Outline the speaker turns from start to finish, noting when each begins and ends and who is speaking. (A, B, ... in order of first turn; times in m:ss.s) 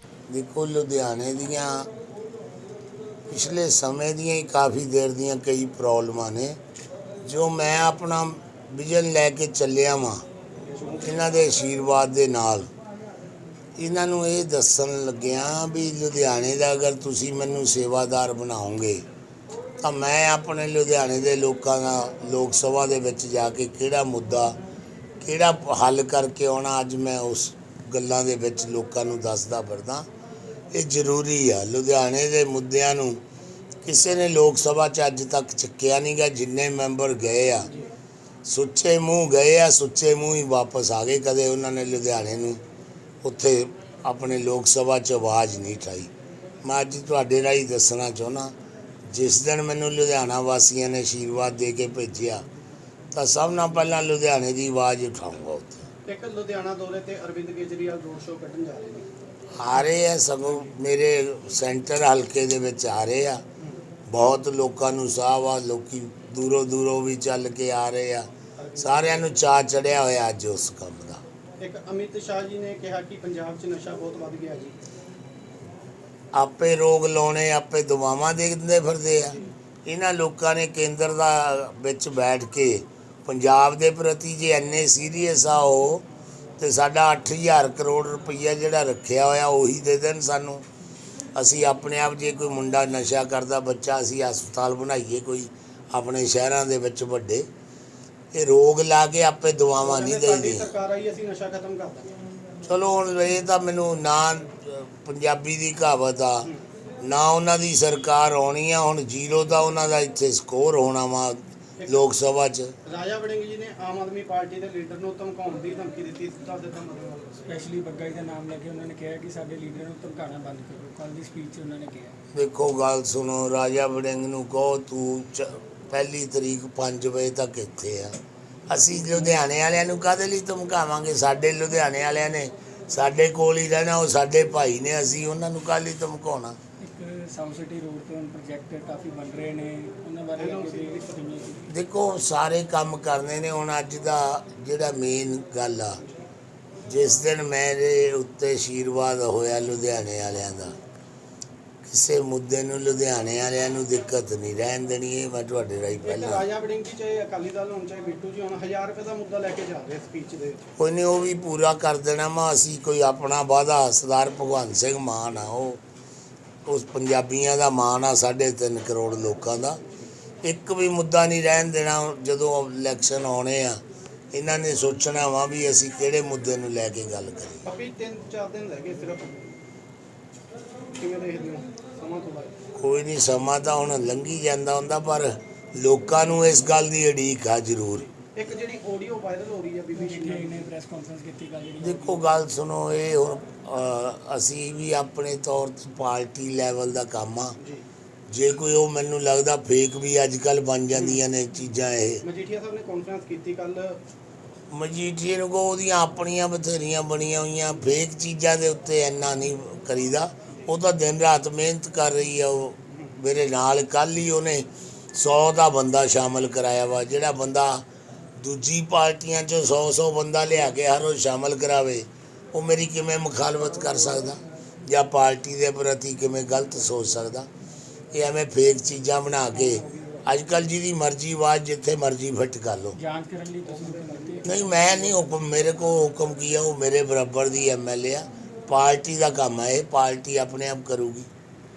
0:00.3-0:01.9 A
0:03.3-0:06.6 A
0:07.2-0:10.2 A
0:10.6-0:11.2 B
0:11.0-0:12.7 A
0:13.8-0:19.0 A
0:19.8-0:24.6 A
0:25.2-0:30.1 A
0:30.7-0:33.2 A
0:33.8-0:37.7 A
0:38.4-0:42.6 A
0:43.2-0:46.1 A
0:46.6-0:48.5 A
0:49.1-0:52.4 A
0:53.1-0:55.8 A
0:56.0-0:59.1 B
0:59.6-1:03.4 A
1:04.1-1:08.3 A
1:08.6-1:09.2 B
1:08.8-1:11.2 A
1:11.6-1:14.7 B
1:16.3-1:26.0 A
1:26.6-1:30.6 A
1:31.3-1:37.5 A
1:38.3-1:40.7 A
1:39.8-1:42.1 B
1:42.6-1:46.5 A
1:47.0-1:52.7 A
1:52.8-1:57.3 B
1:57.4-2:02.2 C
2:02.3-2:08.1 A
2:08.7-2:16.6 A
2:16.8-2:21.7 C
2:20.4-2:21.2 B
2:21.7-2:26.0 A
2:26.9-2:30.8 A
2:31.8-2:36.4 A
2:36.0-2:40.6 B
2:40.8-2:45.8 A
2:46.6-2:49.8 A
2:50.4-2:57.6 A
2:57.6-2:59.5 B
3:01.0-3:02.6 B
3:02.8-3:08.1 A
3:08.2-3:10.7 B
3:09.9-3:12.2 C
3:11.8-3:17.6 A
3:17.6-3:17.8 B
3:18.3-3:22.2 A
3:20.9-3:21.2 B
3:22.2-3:24.0 B
3:24.7-3:37.8 A
3:38.4-3:47.5 A
3:48.1-3:53.0 A
3:49.6-3:50.2 B
3:53.0-3:54.6 C
3:53.6-3:55.2 B
3:54.4-4:01.3 A